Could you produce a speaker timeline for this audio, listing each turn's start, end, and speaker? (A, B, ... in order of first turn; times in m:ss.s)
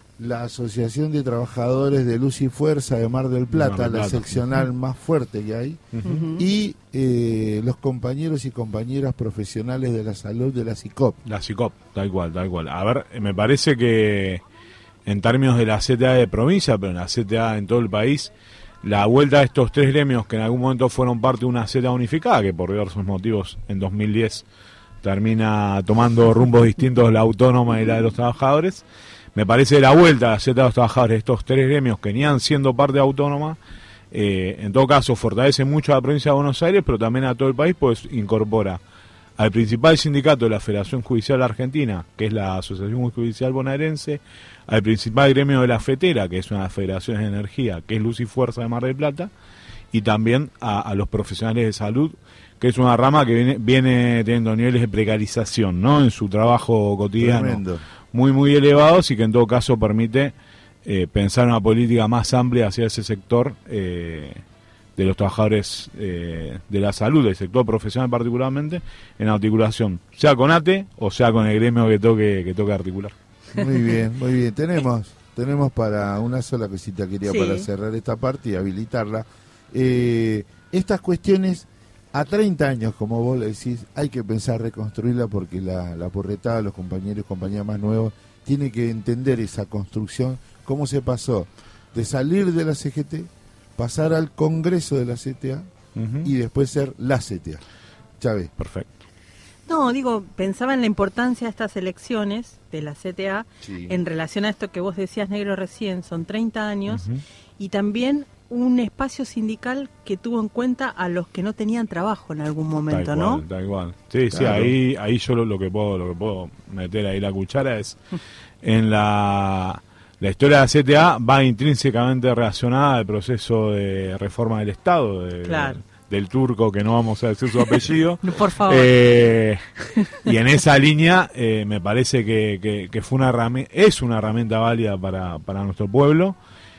0:00.2-0:11.2 A
0:03.5-0:04.4 B
0:05.9-0:06.2 B
0:06.0-0:06.4 C
0:11.2-0:14.4 B
0:15.0-0:18.3 B
0:18.8-0:24.4 B
0:25.0-0:28.8 B
0:29.3-0:33.6 B
0:34.1-0:38.8 B
0:39.4-0:49.3 B
0:49.9-1:00.3 B
0:57.2-0:57.8 A
1:00.8-1:04.4 B
1:05.0-1:13.1 B
1:13.5-1:35.7 A
1:17.2-1:17.7 C
1:35.9-1:36.3 B
1:36.2-1:37.6 A
1:38.2-1:38.5 A
1:38.6-1:38.9 B
1:39.7-1:47.0 C
1:43.6-1:44.0 A
1:46.9-1:47.2 B
1:47.6-1:53.4 C
1:52.9-1:58.0 B
1:54.3-1:54.8 A
1:58.6-2:09.6 B
2:05.4-2:05.8 C
2:07.6-2:08.9 C
2:10.2-2:16.4 B